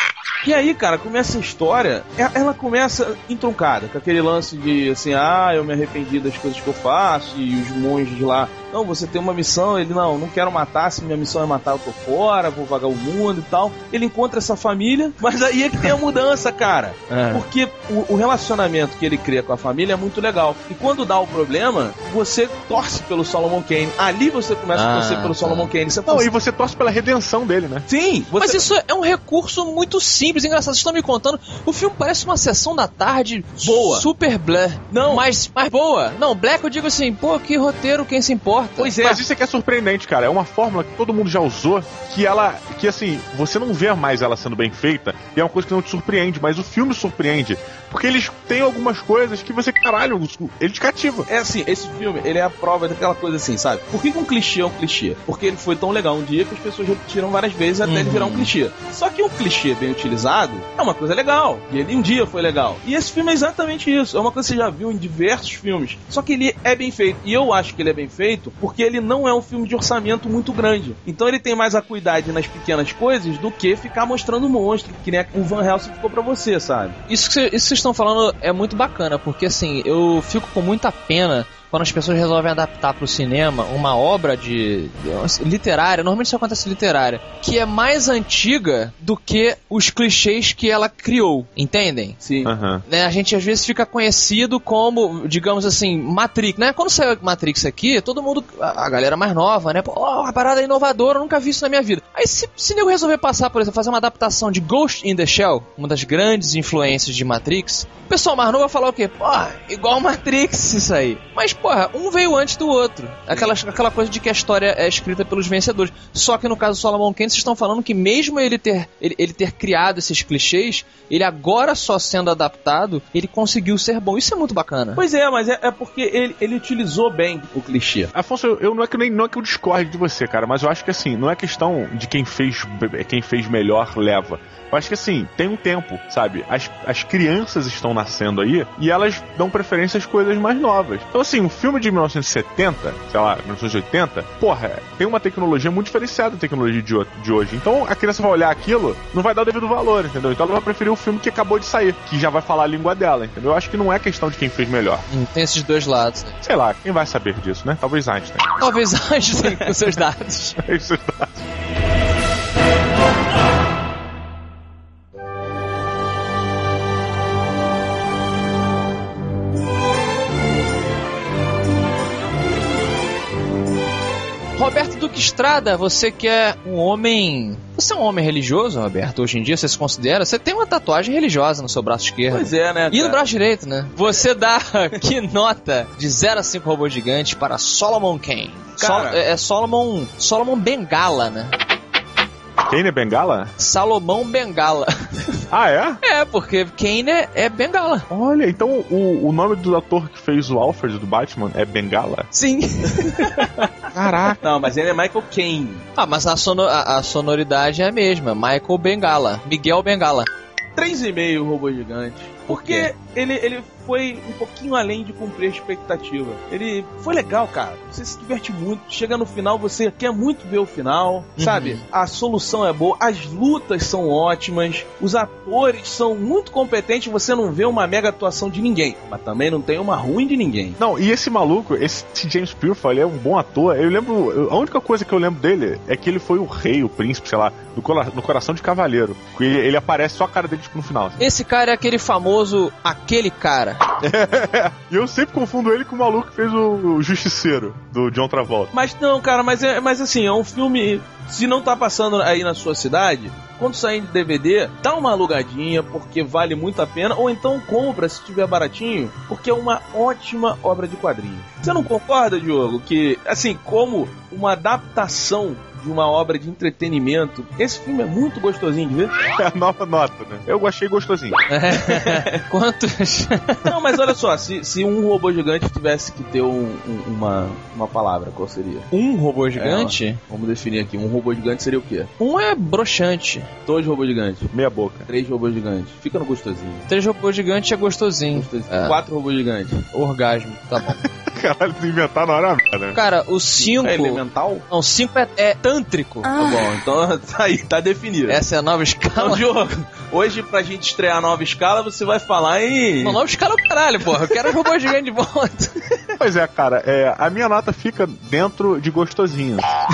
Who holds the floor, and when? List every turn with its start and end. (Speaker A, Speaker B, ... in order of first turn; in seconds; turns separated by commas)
Speaker A: 0.4-26.3, Speaker B: 17.1-17.4, Speaker B: 24.7-25.7, Speaker C: 26.1-27.9, Speaker A: 27.9-28.7, Speaker B: 28.4-39.0, Speaker A: 33.6-34.1, Speaker A: 34.9-35.2, Speaker A: 38.8-39.2, Speaker C: 39.0-51.3, Speaker A: 51.3-77.0, Speaker B: 57.8-58.5, Speaker B: 77.1-92.2, Speaker A: 92.2-92.5, Speaker C: 92.4-92.8, Speaker B: 92.9-125.0, Speaker A: 125.0-128.1, Speaker C: 128.1-155.1, Speaker B: 155.1-156.3, Speaker C: 156.4-158.5, Speaker B: 158.6-160.6, Speaker C: 160.6-161.4, Speaker B: 174.6-191.5, Speaker A: 182.3-183.2, Speaker A: 188.8-189.2, Speaker C: 192.6-193.5, Speaker B: 193.6-195.4, Speaker C: 195.5-196.0, Speaker B: 196.0-198.1, Speaker C: 198.1-202.3, Speaker B: 202.3-203.7, Speaker C: 203.9-204.4, Speaker A: 204.3-205.8, Speaker B: 206.0-210.3, Speaker A: 210.8-230.8, Speaker B: 212.5-212.9, Speaker B: 221.4-221.8, Speaker C: 230.8-241.2, Speaker B: 241.2-243.8, Speaker C: 243.9-248.7, Speaker A: 248.7-269.1, Speaker C: 269.2-271.4, Speaker B: 271.5-273.7, Speaker A: 271.8-272.4, Speaker A: 273.6-278.9, Speaker B: 278.9-280.2, Speaker A: 279.6-282.1, Speaker B: 282.2-283.5, Speaker A: 283.6-284.5, Speaker C: 284.5-285.1, Speaker A: 285.1-286.8, Speaker B: 286.9-289.0, Speaker A: 288.3-289.8, Speaker B: 289.9-291.0, Speaker C: 290.8-293.0, Speaker B: 292.9-294.2, Speaker A: 293.6-294.6, Speaker B: 294.7-296.4, Speaker A: 296.3-298.4, Speaker B: 298.3-299.4, Speaker A: 299.1-303.2, Speaker B: 303.0-305.7, Speaker C: 306.1-309.7